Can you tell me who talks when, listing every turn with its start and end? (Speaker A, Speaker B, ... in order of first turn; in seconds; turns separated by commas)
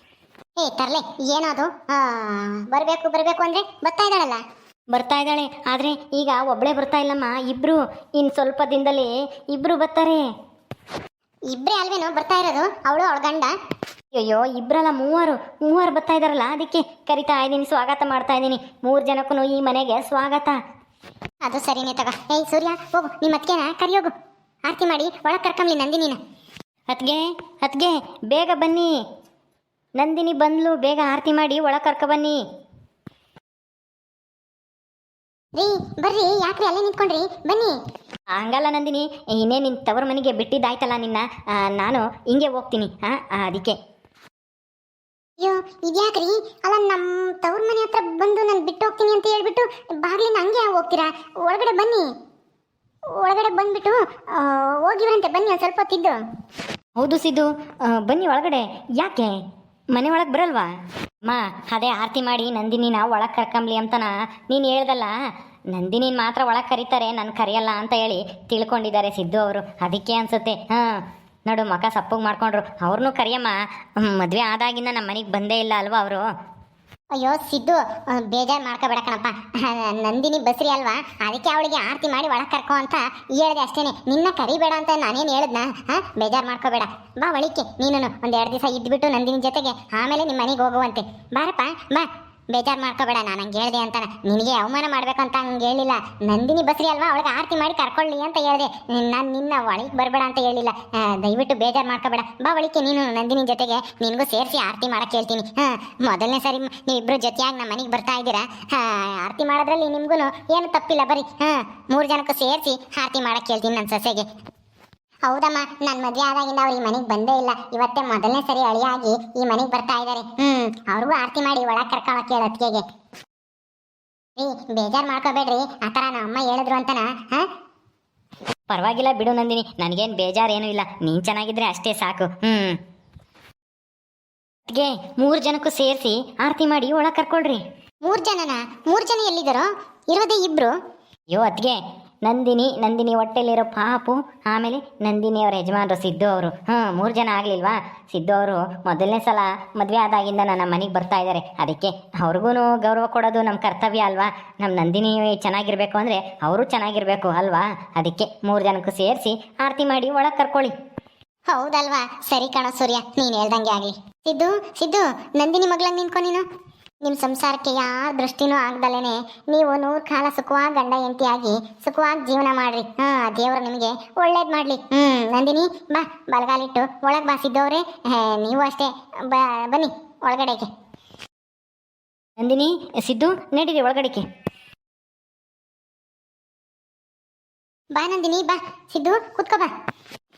Speaker A: 0.6-4.4, Speaker B: 4.9-10.2, Speaker A: 11.5-13.5, Speaker B: 14.2-20.6, Speaker A: 21.4-24.1, Speaker A: 24.7-26.2, Speaker B: 26.9-28.9, Speaker B: 30.0-32.4, Speaker A: 35.5-37.8, Speaker B: 38.4-43.8, Speaker A: 45.4-52.1, Speaker A: 53.2-56.2, Speaker B: 57.0-59.4, Speaker B: 59.9-60.7, Speaker B: 61.2-65.1, Speaker B: 65.7-76.3, Speaker A: 77.2-114.3, Speaker A: 115.3-122.8, Speaker A: 124.4-127.5, Speaker B: 128.7-132.8, Speaker B: 134.7-137.6, Speaker A: 138.0-140.7, Speaker B: 141.3-160.7, Speaker A: 161.5-166.4, Speaker A: 167.0-180.7, Speaker B: 182.4-184.2, Speaker A: 187.9-189.7